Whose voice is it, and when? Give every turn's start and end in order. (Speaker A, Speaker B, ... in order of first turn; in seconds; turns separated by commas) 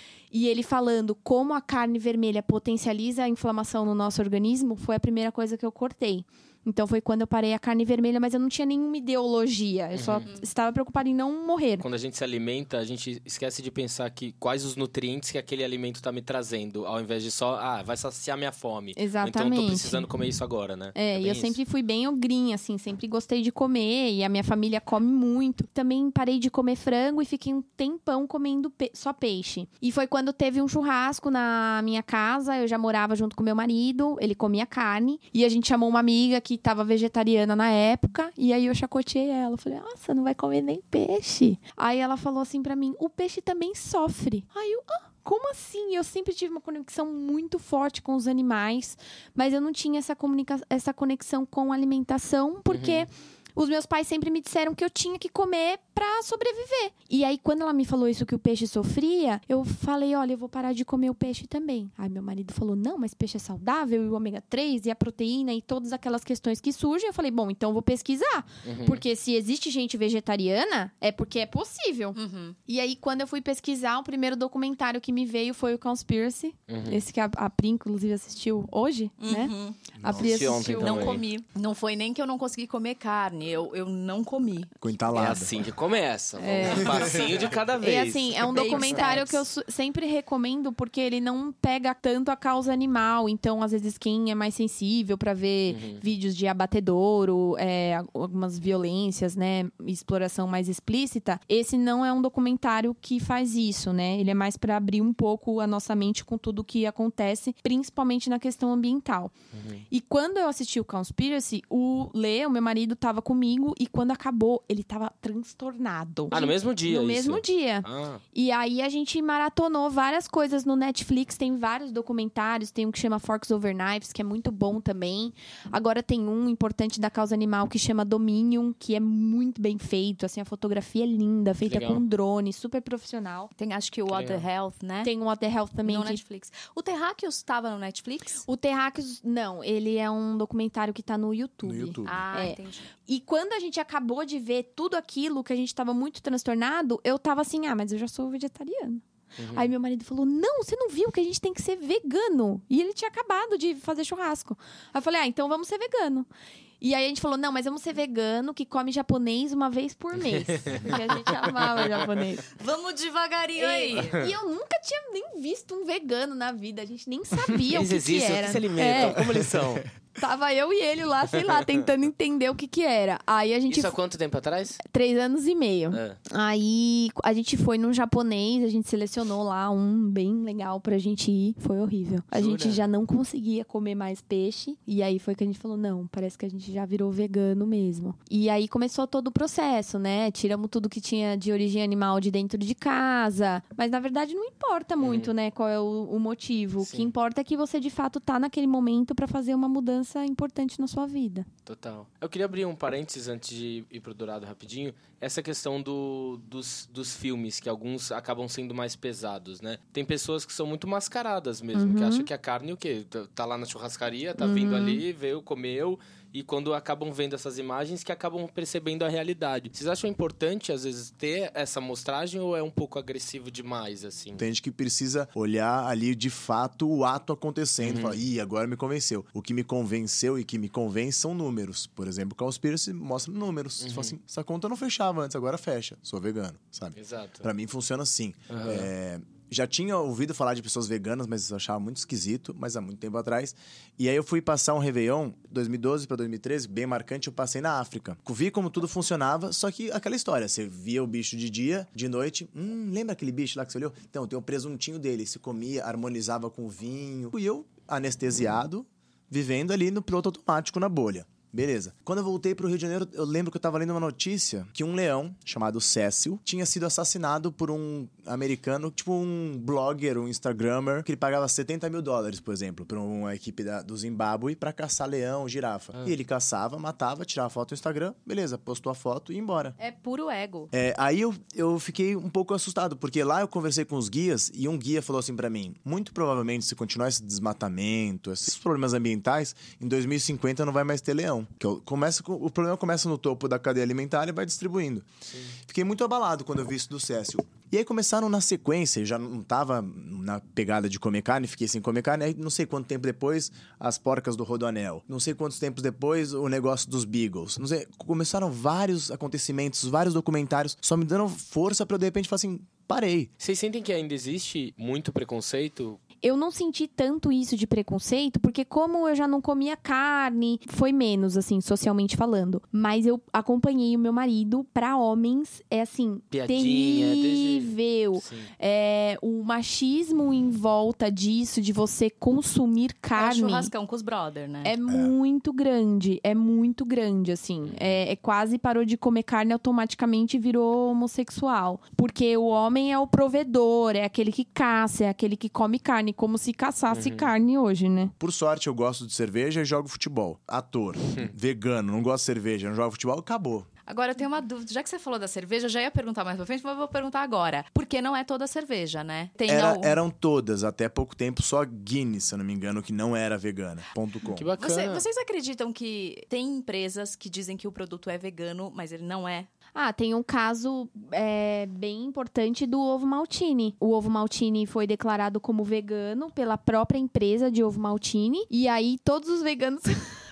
Speaker A: 0.3-11.8, Speaker B: 9.9-10.3, Speaker B: 11.8-21.6, Speaker A: 19.0-20.1, Speaker A: 20.9-81.2, Speaker B: 52.7-53.1, Speaker B: 68.6-69.0, Speaker C: 72.2-72.6, Speaker B: 76.7-77.0, Speaker C: 79.2-79.9, Speaker D: 80.0-80.5, Speaker B: 80.1-81.2, Speaker C: 80.8-84.7, Speaker D: 84.8-85.7, Speaker B: 85.1-89.3, Speaker A: 86.4-109.3, Speaker D: 86.9-87.2, Speaker C: 88.4-89.4, Speaker B: 95.7-96.0, Speaker B: 109.5-109.8, Speaker A: 109.9-133.5, Speaker B: 116.3-118.2, Speaker B: 131.7-132.0, Speaker C: 133.6-135.1, Speaker B: 134.1-134.4, Speaker A: 135.0-136.2, Speaker C: 135.8-138.4, Speaker A: 138.5-156.3, Speaker D: 141.6-142.2, Speaker C: 142.1-142.9, Speaker B: 149.4-149.7, Speaker A: 156.8-162.5, Speaker B: 160.3-161.0, Speaker C: 162.6-164.3, Speaker A: 163.6-169.3, Speaker B: 164.0-164.3, Speaker B: 167.7-169.8, Speaker D: 168.9-169.7, Speaker A: 170.2-174.0, Speaker B: 173.7-174.8, Speaker A: 174.8-201.5, Speaker B: 175.9-176.2, Speaker B: 182.3-182.8, Speaker B: 195.0-195.3, Speaker B: 196.8-197.1, Speaker B: 201.7-224.5, Speaker A: 211.7-212.3, Speaker A: 214.4-215.0, Speaker D: 224.4-279.8, Speaker B: 227.8-228.2, Speaker B: 233.8-234.1, Speaker B: 237.0-237.5, Speaker B: 238.5-238.9, Speaker C: 279.8-280.7, Speaker D: 280.7-295.1, Speaker D: 295.7-313.3, Speaker B: 313.4-316.0, Speaker A: 316.2-333.7, Speaker B: 326.3-328.5, Speaker C: 333.2-334.7, Speaker A: 334.6-348.1, Speaker D: 334.9-335.1, Speaker B: 337.7-337.9, Speaker B: 346.9-347.3, Speaker D: 348.2-353.7, Speaker C: 353.9-360.0, Speaker D: 359.5-364.5, Speaker B: 364.3-365.0, Speaker C: 364.6-369.5, Speaker A: 369.8-380.2